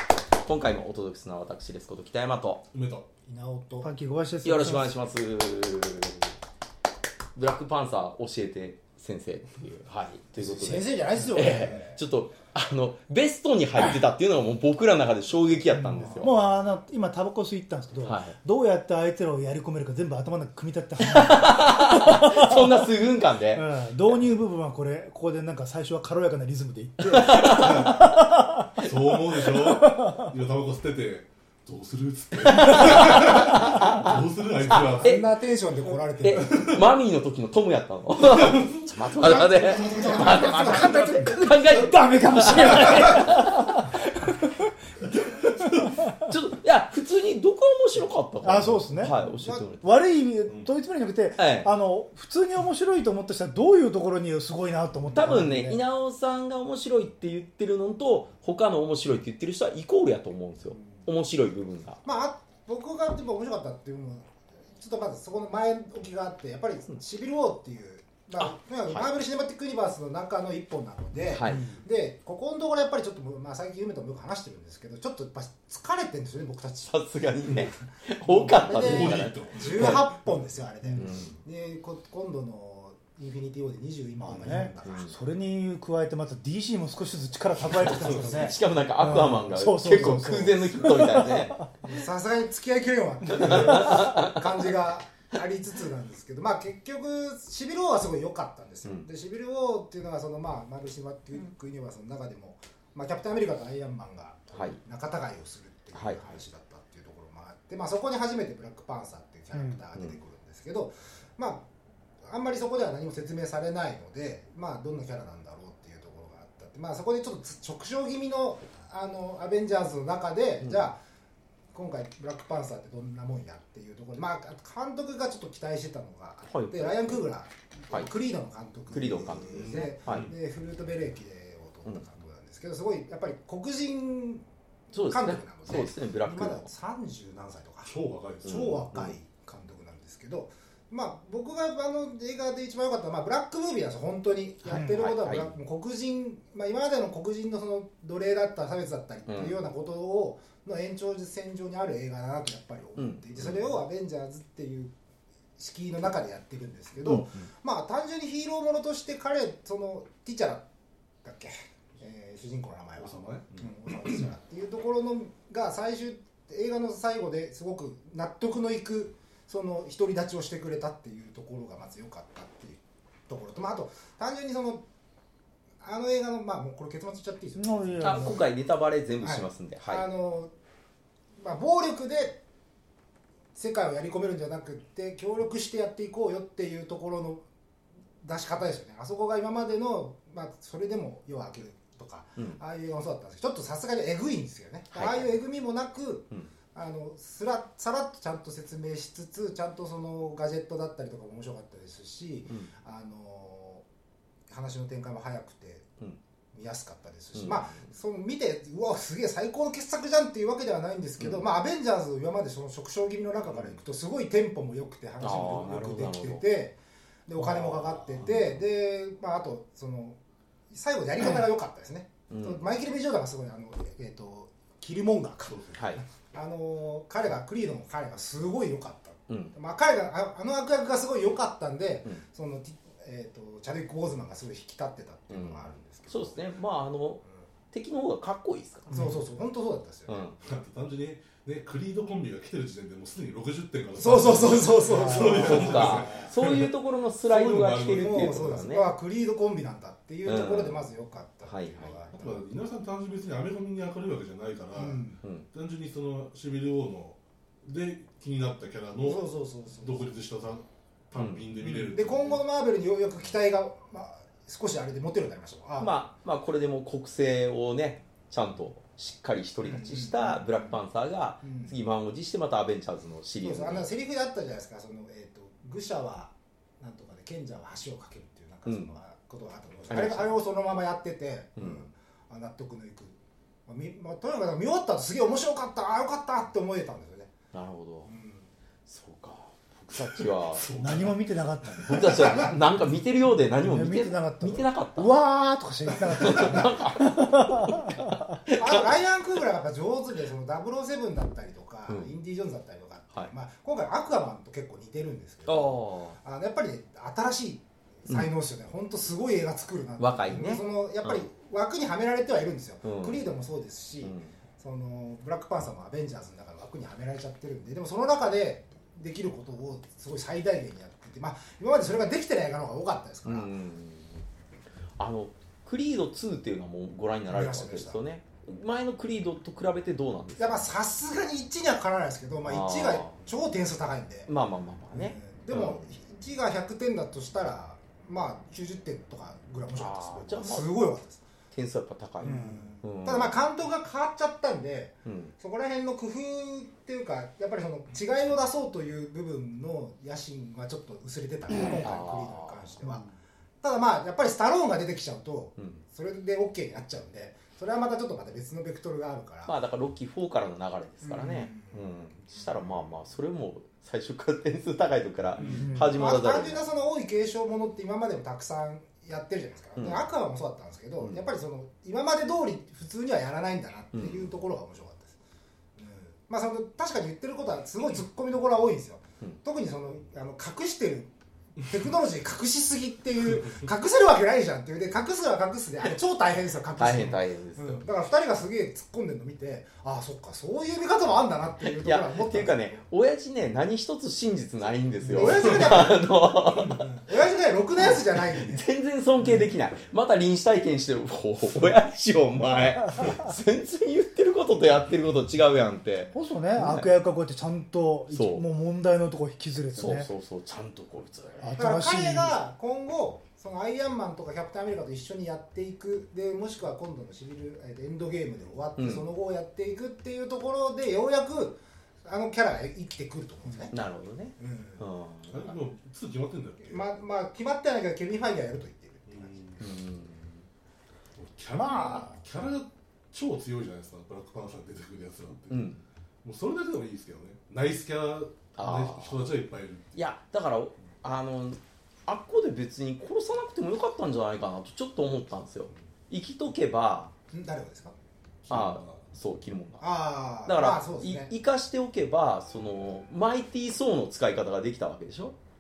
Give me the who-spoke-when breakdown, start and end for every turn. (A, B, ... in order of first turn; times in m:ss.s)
0:00.4-0:02.6 A
0:02.7-0:03.0 B
0:03.3-0:03.9 C
0:03.8-0:04.9 D
0:04.4-0:06.3 A
0:07.4-0:16.3 A
0:10.4-0:12.0 C
0:15.7-0:22.9 D
0:16.0-0:16.3 C
0:18.0-0:18.4 A
0:21.0-0:23.7 A
0:23.5-0:28.8 D
0:27.1-0:28.0 A
0:27.6-0:28.1 B
0:28.8-0:35.2 B
0:29.5-0:30.3 D
0:32.4-0:35.3 A
0:35.0-0:36.7 C
0:36.2-0:44.3 A
0:36.4-0:36.8 B
0:38.3-0:40.4 B
0:39.3-0:41.3 C
0:40.2-0:44.6 D
0:45.2-0:45.6 A
0:46.2-0:49.8 A
0:48.4-0:49.2 D
0:49.2-0:49.7 C
0:49.7-0:55.8 D
0:51.4-0:51.7 A
0:55.1-1:02.0 A
1:02.0-1:17.0 C
1:08.4-1:09.1 A
1:11.3-1:11.6 A
1:11.4-1:11.8 D
1:16.9-1:20.1 A
1:18.3-1:25.0 C
1:18.7-1:20.4 B
1:21.0-1:21.4 A
1:24.2-1:31.7 D
1:24.3-1:25.2 A
1:27.8-1:28.6 C
1:27.8-1:31.6 A
1:29.9-1:30.2 C
1:31.8-1:51.7 C
1:33.3-1:34.4 A
1:33.5-1:34.1 D
1:46.0-1:46.4 A
1:49.5-1:49.8 D
1:52.2-2:01.0 C
2:00.6-2:00.9 A
2:01.7-2:17.9 C
2:06.4-2:07.2 A
2:08.9-2:10.3 A
2:09.5-2:10.3 B
2:14.9-2:16.7 A
2:17.9-2:18.8 B
2:18.4-2:34.9 C
2:18.4-2:19.2 A
2:24.6-2:25.6 A
2:24.7-2:25.0 D
2:29.3-2:29.6 A
2:33.0-2:33.7 A
2:35.6-2:40.7 C
2:37.0-2:37.5 A
2:41.2-2:54.8 C
2:43.0-2:43.7 B
2:55.8-2:58.4 C
2:57.6-2:58.4 D
2:58.0-3:00.0 A
2:59.2-3:00.5 C
3:01.4-3:02.4 C
3:03.6-3:07.4 C
3:08.2-3:23.8 C
3:14.9-3:15.4 A
3:24.5-3:25.9 C
3:26.5-3:40.2 C
3:27.4-3:27.8 A
3:31.2-3:31.4 A
3:33.5-3:33.8 A
3:35.2-3:36.4 A
3:38.1-3:38.6 A
3:40.7-3:56.4 C
3:42.3-3:42.6 A
3:45.5-3:45.8 B
3:45.7-3:46.0 A
3:49.3-3:49.5 A
3:55.3-3:59.1 A
3:58.9-4:00.3 C
4:00.1-4:00.4 A
4:00.4-4:06.7 B
4:04.0-4:06.3 C
4:05.1-4:05.4 D
4:05.4-4:08.9 A
4:07.2-4:08.2 B
4:07.9-4:12.5 C
4:10.3-4:10.9 A
4:11.4-4:12.0 A
4:12.1-4:19.2 B
4:14.8-4:15.2 C
4:19.0-4:20.0 C
4:19.8-4:22.4 B
4:21.2-4:21.4 A
4:21.6-4:25.9 C
4:25.8-4:33.9 A
4:29.6-4:30.8 C
4:31.4-4:31.7 C
4:33.4-4:47.3 C
4:38.7-4:38.9 A
4:39.9-4:40.3 A
4:41.6-4:41.9 A
4:47.5-4:48.1 A
4:48.1-4:48.5 C
4:48.9-4:50.8 A
4:50.5-4:51.2 B
4:50.8-4:52.5 D
4:51.8-4:55.2 A
4:53.6-4:58.4 D
4:56.1-4:58.9 A
4:58.6-5:23.5 C
5:01.9-5:02.1 A
5:05.4-5:06.2 A
5:10.0-5:11.2 A
5:12.8-5:13.2 A
5:14.0-5:14.3 A
5:23.2-5:24.2 A
5:25.0-5:30.6 A
5:27.3-5:28.0 C
5:30.4-5:34.3 C
5:32.4-5:33.2 A
5:34.3-5:35.9 A
5:34.9-5:41.2 C
5:39.8-5:40.8 A
5:41.5-5:43.4 A
5:42.2-5:42.8 D
5:42.2-5:53.1 C
5:45.1-5:45.3 A
5:51.5-5:52.8 A
5:53.6-5:59.5 C
5:55.6-5:55.8 A
5:59.5-6:06.7 A
6:01.0-6:02.8 C
6:05.4-6:05.7 B
6:05.4-6:15.1 C
6:05.4-6:06.0 D
6:09.8-6:10.0 A
6:13.9-6:14.3 A
6:15.8-6:32.8 C
6:26.8-6:27.9 A
6:31.6-6:36.9 A
6:35.1-6:38.7 C
6:35.2-6:35.7 B
6:37.8-6:46.9 A
6:46.1-6:50.1 D
6:48.1-6:48.4 A
6:49.8-6:51.5 A
6:51.4-6:52.4 D
6:51.6-7:03.8 C
6:58.8-6:59.1 A
7:03.7-7:05.6 A
7:04.4-7:04.8 C
7:05.3-7:06.9 B
7:06.7-7:09.4 C
7:09.1-7:09.6 B
7:09.6-7:10.4 A
7:11.2-7:15.7 B
7:11.6-7:12.1 D
7:15.5-7:15.8 A
7:16.2-7:20.0 B
7:18.6-7:19.2 A
7:20.0-7:27.1 A
7:27.3-7:28.0 C
7:28.4-7:29.0 B
7:28.5-7:29.9 A
7:29.8-7:31.3 C
7:30.4-7:35.4 A